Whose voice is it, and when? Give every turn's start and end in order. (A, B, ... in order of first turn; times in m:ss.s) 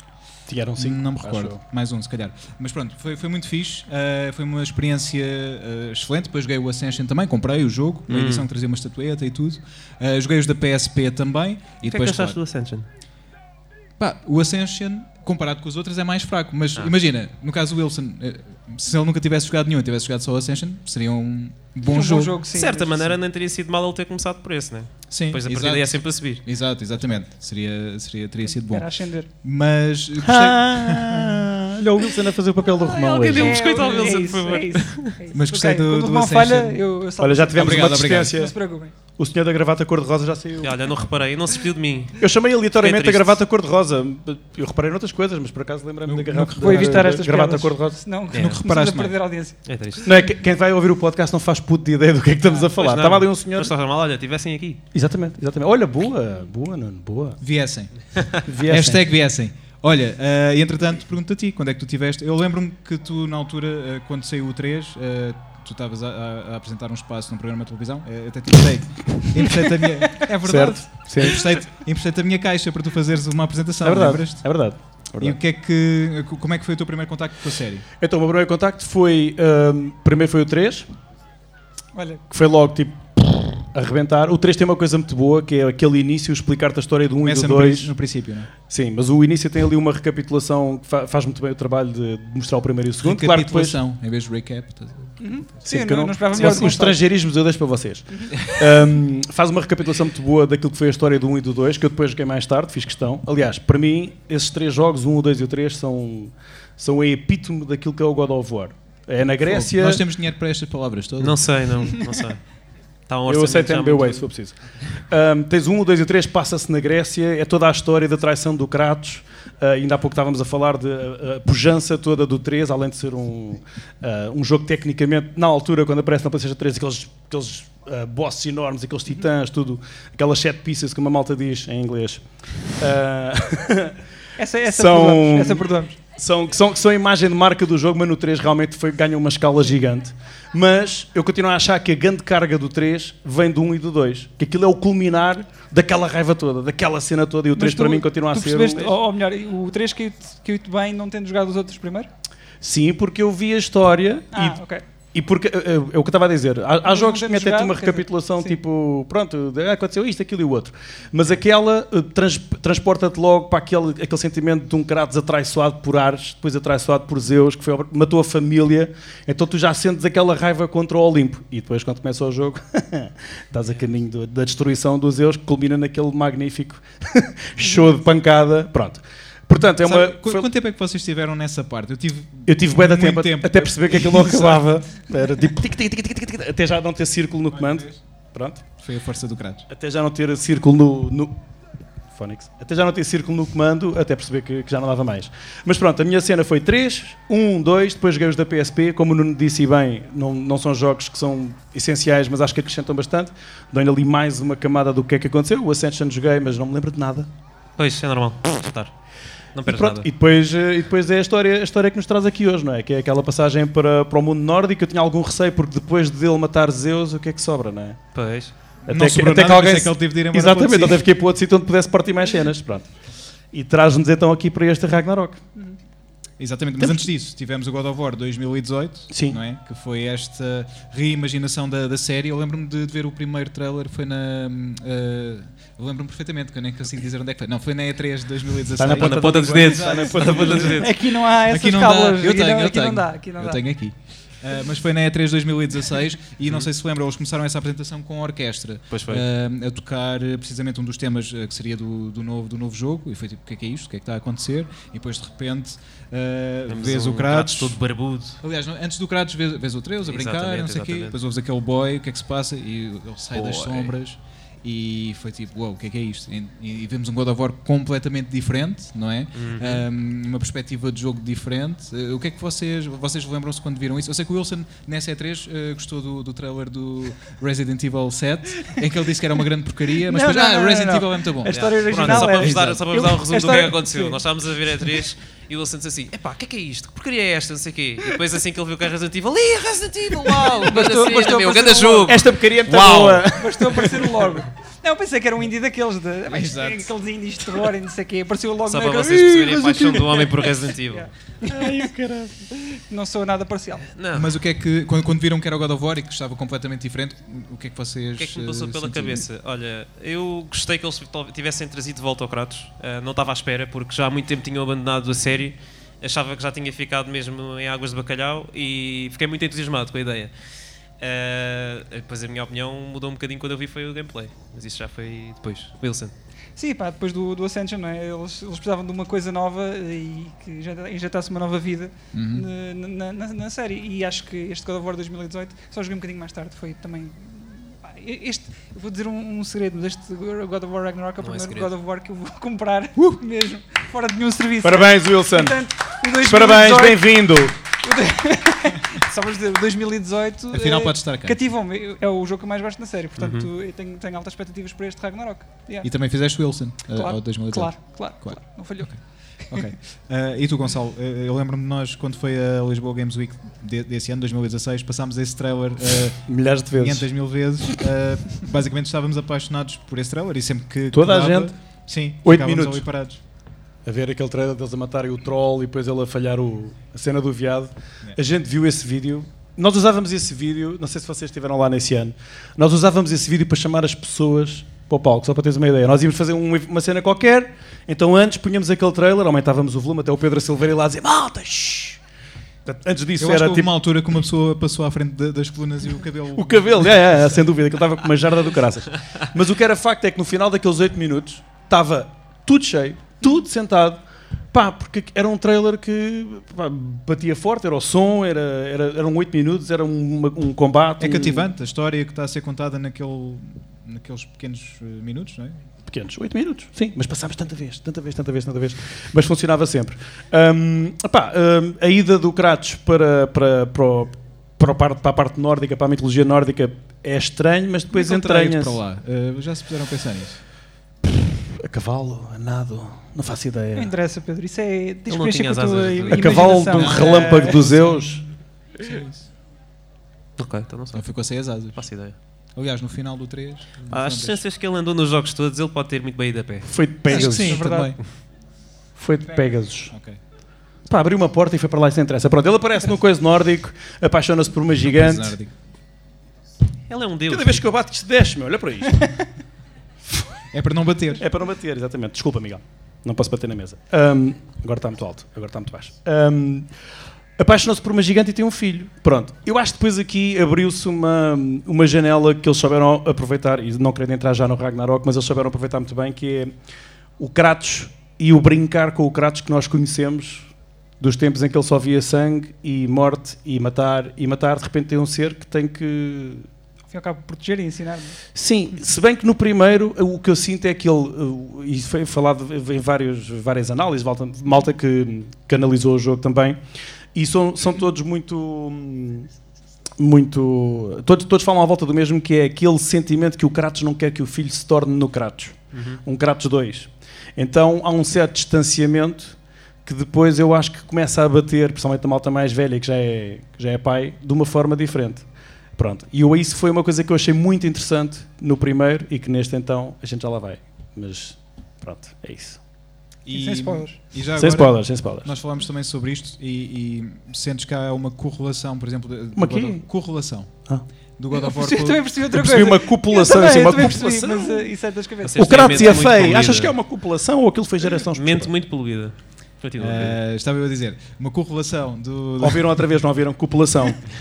0:00.5-0:01.6 A
0:00.8-0:12.4 B
0:08.1-0:08.5 C
0:11.8-0:12.9 C
0:14.0-0:22.4 B
0:21.8-0:22.9 D
0:22.5-0:26.4 C
0:25.1-0:28.9 B
0:28.5-0:29.3 D
0:29.4-0:31.5 B
0:30.2-0:33.8 A
0:32.9-0:35.1 C
0:33.2-0:38.9 D
0:35.3-0:36.8 B
0:37.2-0:38.5 A
0:37.6-0:38.4 B
0:39.2-0:41.0 A
0:40.6-0:42.2 C
0:42.2-0:48.0 A
0:42.7-0:43.4 C
0:46.0-0:47.1 B
0:46.6-0:49.6 D
0:48.3-0:49.2 B
0:48.3-0:48.6 C
0:49.6-0:50.1 C
0:50.0-0:53.7 A
0:52.7-0:54.8 C
0:54.9-0:57.4 A
0:57.4-1:17.8 B
0:58.1-0:58.4 C
0:58.4-0:59.0 A
1:10.4-1:11.5 A
1:13.8-1:15.4 A
1:18.0-1:20.9 A
1:21.9-1:22.2 D
1:22.3-1:27.9 A
1:27.2-1:28.5 B
1:28.7-1:33.8 A
1:33.0-1:35.2 B
1:35.2-1:37.0 D
1:35.6-1:50.0 A
1:38.1-1:38.4 D
1:49.4-1:51.6 B
1:51.2-1:52.5 C
1:53.1-1:54.3 C
1:53.2-2:14.0 A
2:14.4-2:16.0 D
2:14.7-2:28.9 A
2:27.6-2:32.1 D
2:32.6-2:34.6 A
2:34.3-2:34.8 D
2:35.1-3:00.5 A
2:36.8-2:38.6 D
2:59.8-3:04.8 B
3:02.5-3:08.6 A
3:07.5-3:08.0 B
3:08.8-3:09.7 B
3:09.7-3:11.4 A
3:12.1-3:27.3 A
3:27.8-3:28.9 C
3:29.5-3:30.1 C
3:29.6-3:38.0 A
3:38.1-3:38.5 C
3:38.8-3:41.0 B
3:38.9-3:42.9 A
3:43.5-3:45.4 A
3:46.4-4:17.8 B
3:49.1-3:49.4 A
3:58.8-4:00.8 A
3:58.9-4:00.9 C
4:00.8-4:03.6 D
4:08.9-4:09.2 C
4:16.7-4:18.4 C
4:18.4-4:42.8 B
4:20.0-4:21.2 C
4:23.3-4:23.9 C
4:29.3-4:29.8 C
4:40.0-4:44.2 D
4:41.5-4:53.2 C
4:50.4-4:52.1 D
4:52.1-4:54.3 A
4:53.3-4:59.6 D
4:56.3-4:56.9 B
4:58.7-5:01.1 C
4:59.4-5:00.0 A
5:00.7-5:01.9 D
5:01.4-5:02.5 A
5:02.9-5:03.9 D
5:03.9-5:04.3 C
5:04.1-5:09.2 B
5:08.2-5:20.3 C
5:21.0-5:26.1 C
5:26.6-5:47.2 D
5:32.1-5:32.5 B
5:41.2-5:41.7 C
5:44.6-5:45.6 A
5:46.2-5:47.5 A
5:47.7-5:55.9 D
5:50.5-5:51.4 B
5:53.2-5:53.5 C
5:55.8-6:13.2 B
5:56.9-5:59.7 D
6:06.3-6:07.1 A
6:10.9-6:11.5 A
6:12.2-6:12.8 A
6:13.8-6:32.0 A
6:32.6-6:33.7 A
6:33.2-6:37.3 B
6:36.3-6:51.5 A
6:51.0-6:55.6 B
6:55.8-7:08.8 A
7:07.9-7:10.4 B
7:11.1-7:13.9 A
7:13.7-7:17.6 D
7:15.1-7:16.3 C
7:16.1-7:18.2 A
7:16.2-7:18.2 B
7:18.8-7:19.3 B
7:20.4-7:22.2 C
7:20.9-7:21.9 B
7:22.5-7:24.4 B
7:23.9-7:26.7 C
7:26.6-7:27.6 A
7:27.1-7:28.0 D
7:27.1-7:28.0 B
7:29.0-7:29.9 A
7:29.9-7:30.2 B
7:30.9-7:35.3 A
7:34.8-7:35.5 B
7:36.9-7:37.6 C
7:37.3-7:39.2 A
7:40.5-7:41.2 B
7:41.2-7:46.7 A
7:47.4-7:56.5 A
7:57.2-8:06.4 A
8:06.9-8:08.2 D
8:08.3-8:16.6 A
8:17.1-8:19.3 A
8:20.0-8:42.6 A
8:25.7-8:26.0 C
8:43.2-8:50.6 B
8:43.3-8:44.0 D
8:44.4-8:45.3 A
8:49.4-8:49.8 A
8:51.2-8:52.4 B
8:51.3-8:56.1 D
8:52.3-8:54.7 A
8:55.2-8:56.7 C
8:55.4-8:58.5 A
8:58.1-9:00.2 C
8:59.8-9:02.8 B
9:02.4-9:04.0 A